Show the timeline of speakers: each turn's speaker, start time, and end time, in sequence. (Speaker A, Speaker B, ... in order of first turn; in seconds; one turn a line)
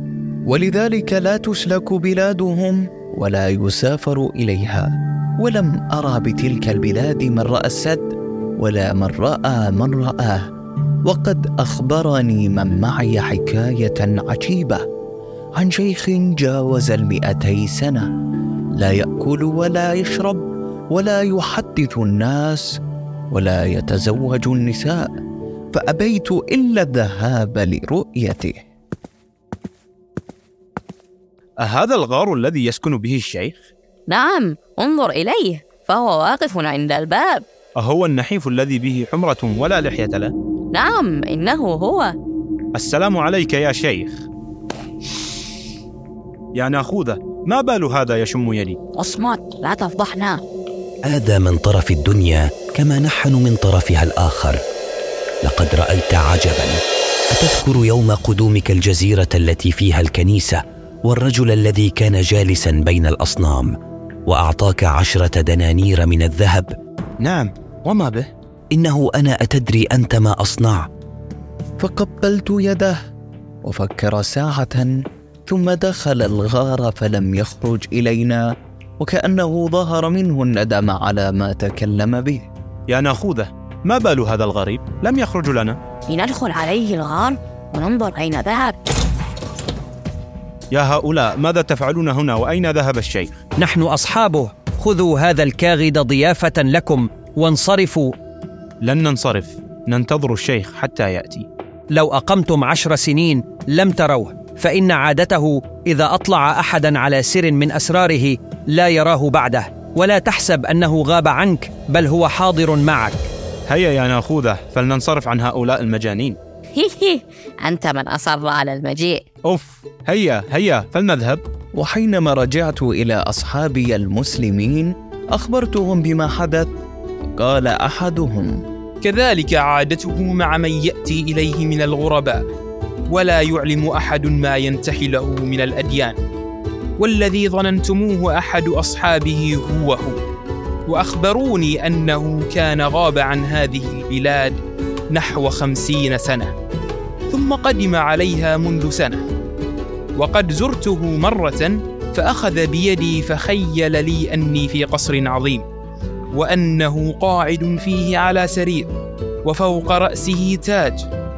Speaker A: 0.5-4.9
Speaker A: 5.4-10.4
Speaker A: 11.1-14.8
Speaker A: 15.6-18.1
Speaker A: 18.8-22.7
Speaker A: 23.3-25.1
Speaker A: 25.7-28.6
Speaker B: 31.6-33.7
Speaker C: 34.1-37.4
Speaker B: 37.8-40.3
Speaker C: 40.7-42.1
Speaker B: 42.7-44.2
Speaker B: 46.5-48.8
Speaker C: 49.0-50.4
Speaker D: 51.0-54.6
Speaker D: 55.4-66.8
Speaker B: 67.2-68.3
Speaker D: 68.7-70.9
Speaker A: 71.8-73.0
Speaker A: 73.6-75.0
Speaker A: 75.5-78.4
Speaker A: 79.0-82.5
Speaker B: 82.9-85.8
Speaker C: 86.1-88.8
Speaker B: 90.7-93.4
Speaker E: 93.6-98.1
Speaker B: 98.8-101.5
Speaker E: 101.9-113.3
Speaker B: 113.7-116.4
Speaker C: 116.7-119.2
Speaker B: 119.5-121.4
Speaker A: 121.8-126.7
Speaker A: 127.4-128.6
Speaker F: 129.0-132.4
Speaker F: 133.1-136.2
Speaker F: 137.0-140.2
Speaker F: 140.9-144.6
Speaker F: 145.1-146.5
Speaker F: 147.3-149.2
Speaker F: 150.2-155.6
Speaker F: 156.3-158.9
Speaker F: 159.4-161.0